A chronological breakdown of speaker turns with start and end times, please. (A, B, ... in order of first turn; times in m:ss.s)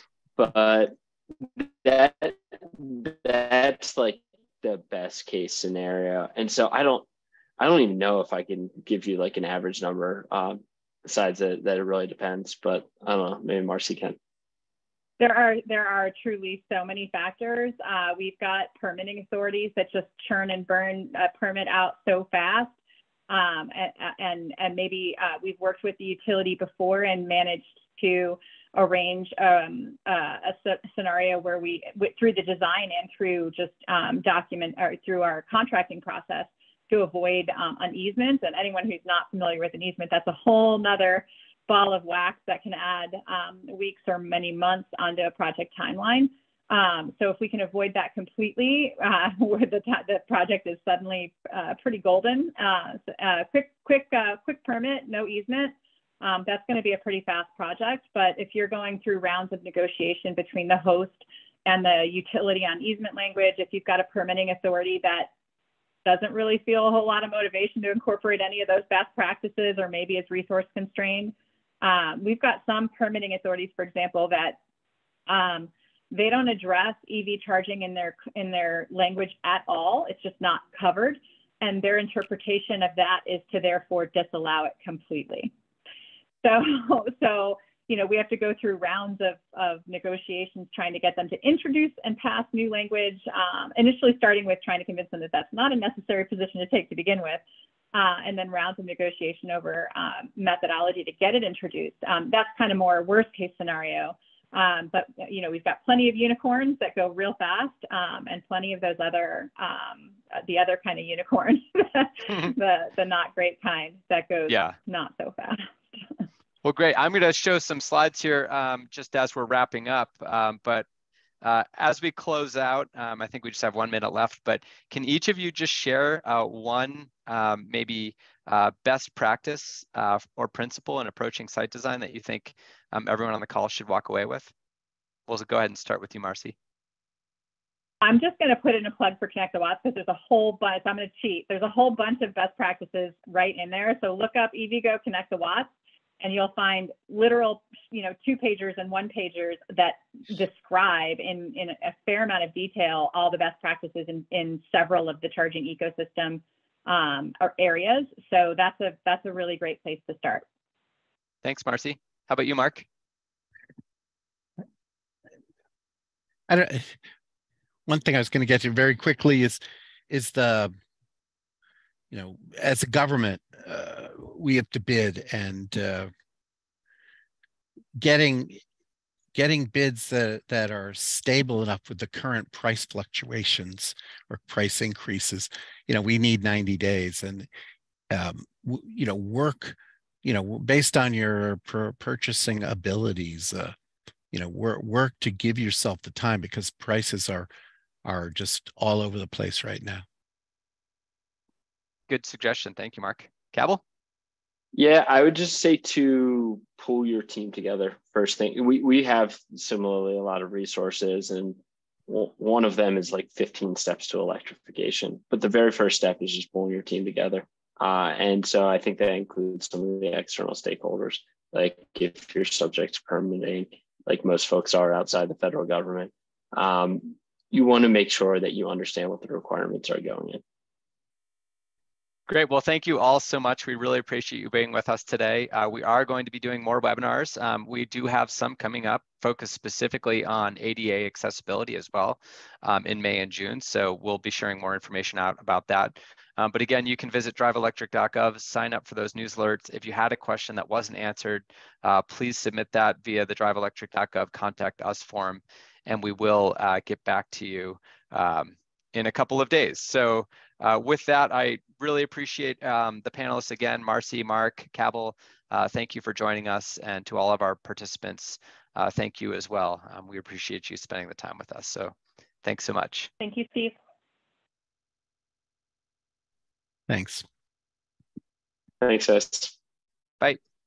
0:00.4-0:07.1 A
0:07.6-0:14.2 A
0:15.2-0:22.8 B
0:23.3-1:05.3 B
1:06.0-1:14.6 B
1:15.3-1:25.5 B
1:26.4-1:37.4 B
1:37.9-1:56.0 B
1:54.5-1:54.8 C
1:56.6-2:00.9 C
2:01.4-2:14.5 C
2:15.3-2:16.6 C
2:18.0-2:40.4 B
2:41.4-2:42.9 C
2:46.5-2:47.0 D
2:47.9-2:50.7 D
2:52.1-2:56.1 D
2:58.0-2:58.6 D
2:59.4-3:07.5 D
3:08.1-3:13.8 D
3:14.3-3:17.5 D
3:18.0-3:20.0 D
3:22.1-3:23.8 C
3:24.8-3:50.4 A
3:52.3-4:33.1 C
4:33.2-4:33.8 B
4:36.9-4:37.2 D
4:38.8-4:39.6 A